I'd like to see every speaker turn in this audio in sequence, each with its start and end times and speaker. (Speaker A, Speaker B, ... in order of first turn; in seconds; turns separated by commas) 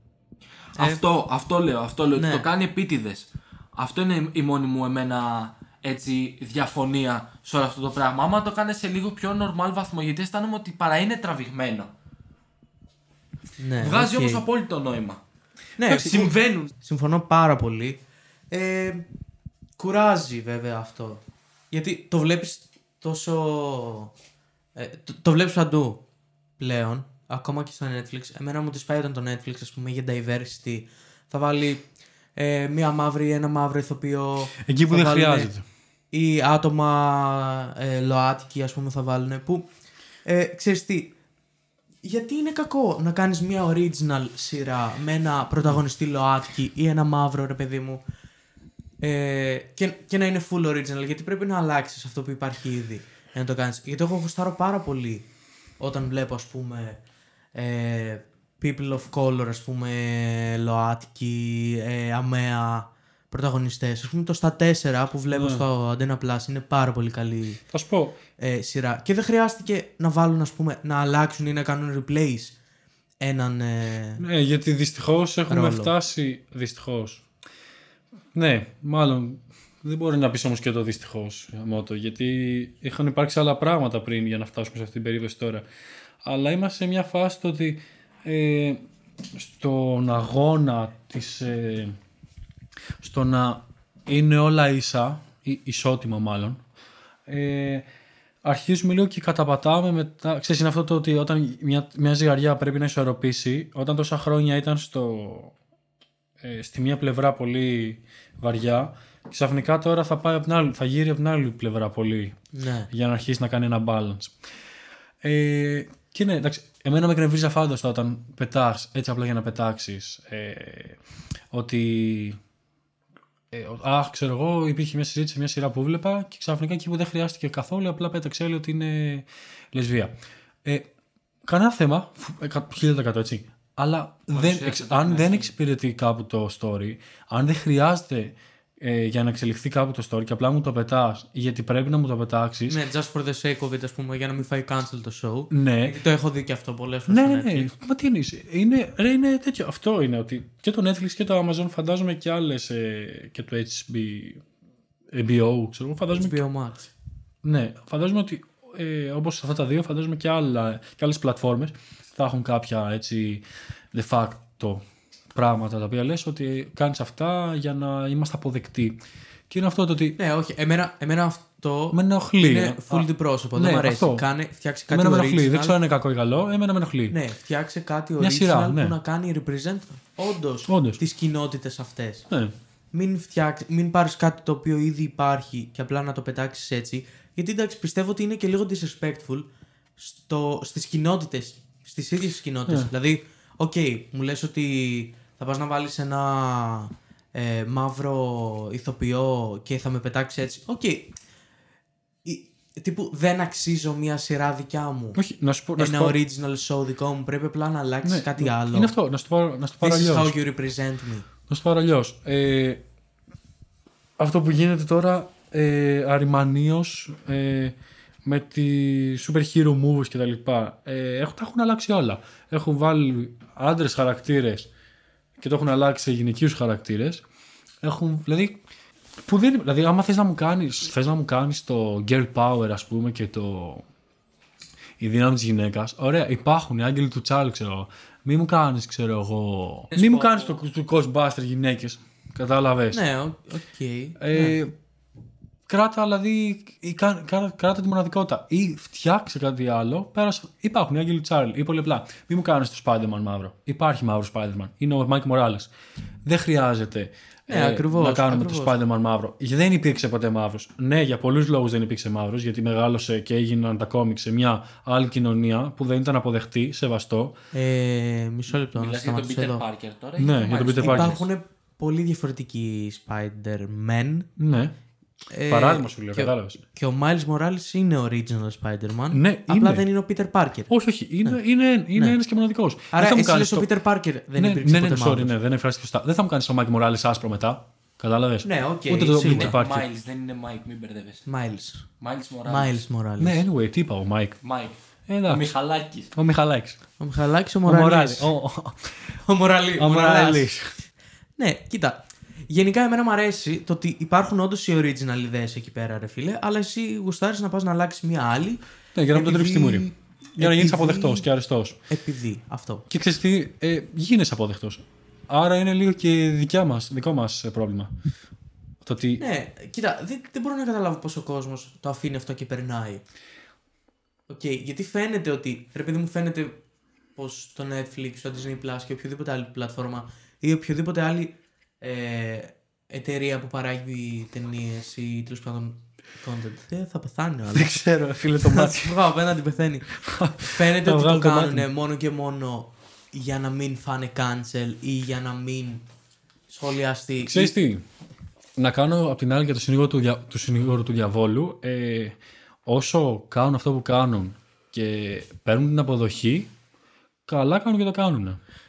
Speaker A: 0.7-11.9, Speaker B: 0.8-1.0, Speaker B: 2.1-2.5, Speaker B: 13.6-14.4, Speaker A: 13.8-15.2, Speaker B: 15.8-18.0, Speaker A: 15.8-16.7, Speaker B: 18.5-19.1, Speaker B: 19.8-24.1, Speaker B: 24.8-26.0, Speaker B: 26.6-31.8, Speaker B: 32.4-35.5, Speaker C: 34.6-35.6, Speaker B: 36.1-39.7, Speaker B: 40.2-41.1, Speaker B: 42.0-48.0, Speaker B: 49.0-55.3, Speaker B: 55.8-57.0, Speaker B: 57.5-67.6, Speaker C: 65.3-65.7, Speaker C: 67.7-68.2, Speaker B: 68.4-72.5, Speaker B: 73.2-74.2, Speaker C: 74.2-77.2, Speaker B: 75.5-75.9, Speaker C: 78.3-85.7, Speaker C: 86.2-92.0, Speaker C: 93.0-96.6, Speaker C: 97.3-97.9, Speaker C: 98.4-105.5, Speaker C: 106.4-112.4, Speaker B: 112.5-112.9, Speaker C: 112.9-114.3, Speaker C: 115.2-121.0, Speaker C: 121.5-122.4, Speaker C: 123.5-130.1, Speaker C: 131.4-142.8, Speaker A: 134.3-135.5, Speaker B: 142.7-147.7, Speaker C: 145.5-146.0, Speaker C: 147.1-154.4, Speaker C: 155.1-156.4, Speaker B: 156.1-156.9, Speaker C: 157.4-163.4, Speaker C: 163.9-164.8, Speaker C: 165.3-170.2, Speaker B: 170.2-175.8, Speaker C: 171.9-174.3, Speaker C: 174.9-177.2, Speaker B: 177.1-182.3, Speaker C: 178.2-179.0, Speaker C: 180.7-181.0, Speaker B: 182.9-201.1, Speaker B: 202.2-205.2, Speaker C: 205.2-206.2, Speaker B: 205.8-208.9, Speaker C: 208.0-210.4, Speaker B: 209.8-211.3, Speaker C: 211.5-212.8, Speaker C: 214.2-224.7, Speaker C: 225.4-227.2, Speaker C: 227.8-228.6, Speaker C: 229.2-233.8, Speaker C: 235.0-243.0, Speaker B: 239.9-240.6, Speaker B: 242.9-244.6, Speaker C: 244.2-244.7, Speaker C: 245.7-255.7, Speaker C: 256.2-267.4, Speaker B: 257.5-258.8, Speaker B: 267.5-269.6, Speaker A: 268.7-271.3, Speaker C: 270.2-271.1, Speaker B: 270.8-274.3, Speaker C: 274.4-274.7, Speaker B: 275.3-280.7, Speaker C: 275.5-276.6, Speaker C: 279.1-279.9, Speaker C: 280.7-283.7, Speaker B: 282.9-285.4, Speaker C: 284.4-289.9, Speaker B: 288.4-289.6, Speaker A: 289.2-291.3, Speaker B: 291.3-291.8, Speaker A: 292.0-292.8, Speaker B: 292.5-293.4, Speaker C: 293.2-294.4, Speaker A: 294.4-296.1, Speaker C: 295.1-295.6, Speaker C: 296.1-296.8, Speaker B: 297.0-298.3, Speaker C: 297.6-299.2, Speaker B: 299.2-300.5, Speaker C: 299.8-300.7, Speaker B: 301.4-302.0, Speaker B: 302.5-311.3, Speaker C: 308.9-311.8, Speaker B: 311.9-312.9, Speaker C: 312.9-317.9, Speaker C: 318.8-319.2, Speaker B: 319.2-323.0, Speaker B: 324.3-326.6, Speaker B: 327.2-337.8, Speaker C: 337.5-339.1, Speaker B: 338.4-345.9, Speaker C: 339.9-341.7, Speaker B: 346.5-347.5, Speaker C: 347.2-347.9, Speaker C: 348.6-356.5, Speaker C: 357.3-358.4